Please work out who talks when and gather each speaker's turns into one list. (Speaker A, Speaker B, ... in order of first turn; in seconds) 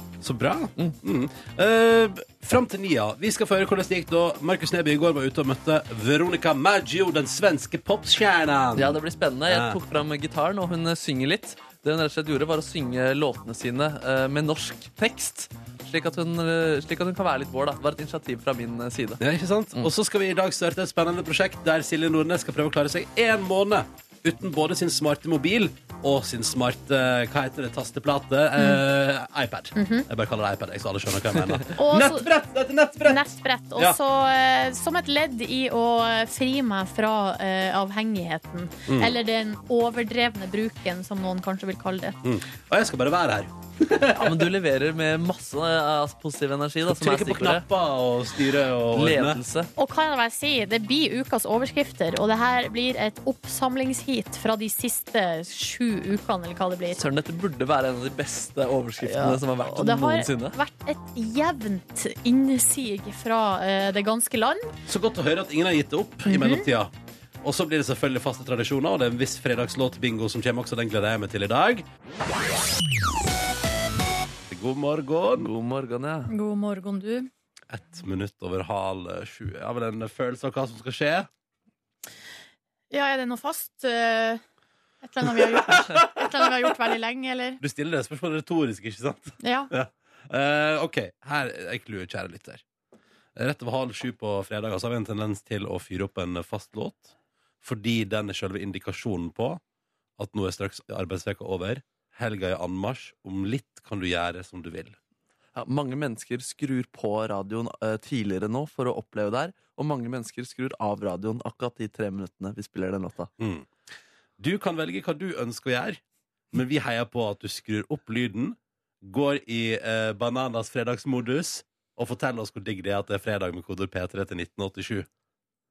Speaker A: 0.2-9.8, 19.2-33.2, 38.9-39.1, 42.2-44.5, 46.9-49.4, 64.9-71.8, 74.5-75.5, 77.7-81.3, 85.2-86.7, 87.6-92.6, 93.3-99.6, 100.2-105.0, 113.4-113.7, 114.4-116.0, 116.5-125.1
Speaker B: 8.8-19.2, 44.1-47.6, 48.9-49.7, 57.0-60.6, 75.3-76.3, 105.5-113.3
Speaker C: 29.7-30.1, 31.8-32.3, 33.0-42.2, 49.8-57.0, 59.0-64.7, 66.2-66.7, 76.3-77.3, 82.9-84.4, 85.0-87.6, 89.4-89.7